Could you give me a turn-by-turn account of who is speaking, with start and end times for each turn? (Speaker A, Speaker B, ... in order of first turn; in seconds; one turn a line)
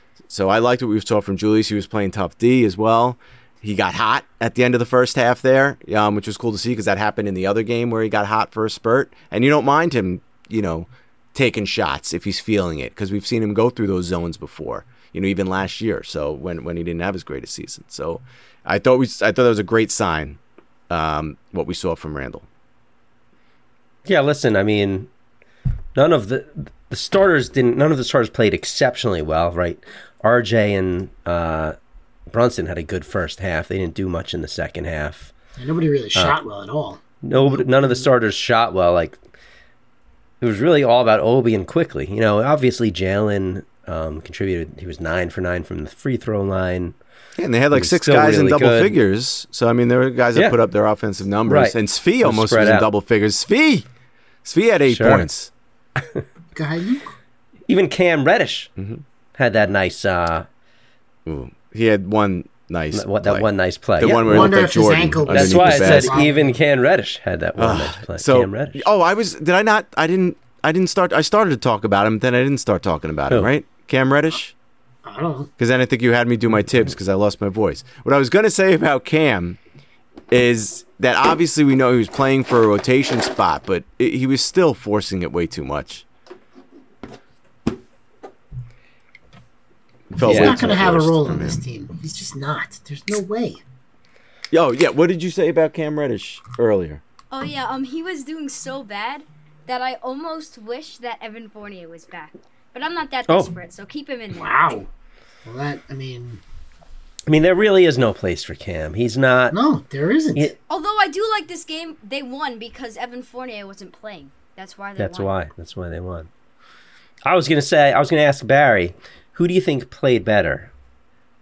Speaker A: 0.3-20.4
Speaker A: 20.9-22.4
Speaker B: 24.1-25.1
Speaker B: 25.9-31.8
Speaker B: 32.3-35.3
Speaker C: 35.6-38.1
Speaker B: 37.2-39.2
Speaker B: 40.4-46.9
Speaker A: 47.4-53.9
Speaker B: 47.7-49.0
Speaker B: 51.5-52.9
Speaker A: 54.4-55.5
Speaker B: 54.9-55.3
Speaker C: 56.5-57.1
Speaker B: 57.7-58.7
Speaker B: 59.4-60.5
Speaker A: 61.2-66.2
Speaker B: 62.9-64.6
Speaker C: 64.2-66.5
Speaker B: 65.3-68.8
Speaker A: 67.6-74.5
Speaker C: 75.0-75.5
Speaker A: 75.6-79.6
Speaker A: 80.3-86.0
Speaker A: 90.1-91.6
Speaker C: 90.2-93.6
Speaker B: 90.2-90.7
Speaker A: 94.5-97.0
Speaker D: 97.3-104.8
Speaker C: 104.3-104.9
Speaker C: 105.4-106.4
Speaker B: 107.3-109.6
Speaker C: 109.5-110.5
Speaker D: 110.7-115.3
Speaker B: 115.0-116.3
Speaker B: 117.2-120.7